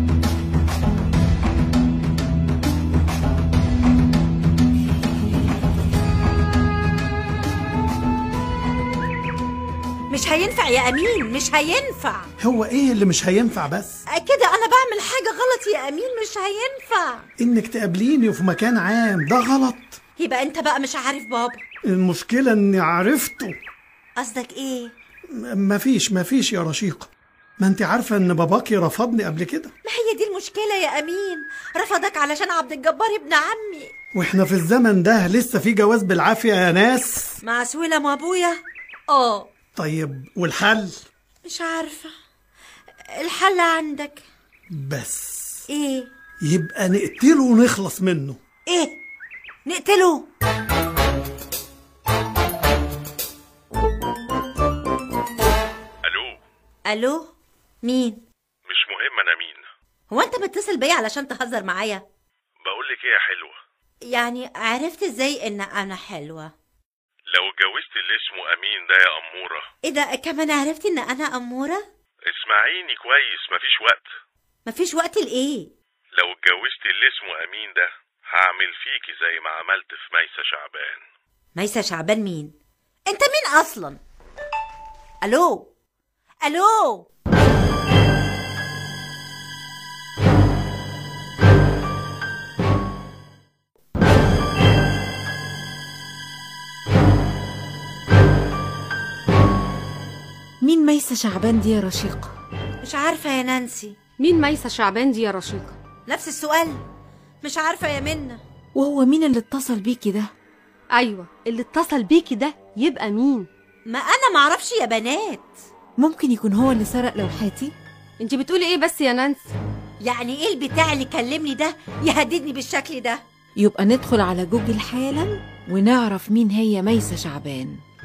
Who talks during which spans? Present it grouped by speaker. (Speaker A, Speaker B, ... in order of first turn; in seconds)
Speaker A: 10.1-12.3, 14.1-17.3, 20.2-21.6, 24.2-24.9, 29.8-33.9, 37.4-39.5, 41.4-42.1, 43.2-44.2, 45.7-46.1, 48.7-49.0, 49.7-50.3, 56.9-57.3, 57.8-58.2, 60.1-62.0, 64.0-66.5, 69.8-71.8, 74.7-75.7, 81.6-82.5, 83.1-84.0, 85.2-85.7, 86.4-87.1, 102.8-104.0, 106.1-106.8, 107.4-108.4, 113.9-115.5, 120.0-123.2
Speaker B: 12.4-14.0, 17.4-20.0, 21.9-23.6, 25.4-29.7, 34.1-37.3, 39.8-41.1, 44.7-45.6, 46.4-48.4
Speaker C: 56.0-56.4, 58.7-59.6, 62.6-63.6, 67.3-69.7, 72.3-74.1, 76.2-81.0
Speaker D: 100.6-102.3, 108.8-110.3, 116.0-117.7, 123.6-127.8
Speaker E: 104.2-105.8, 110.9-113.5, 118.2-119.5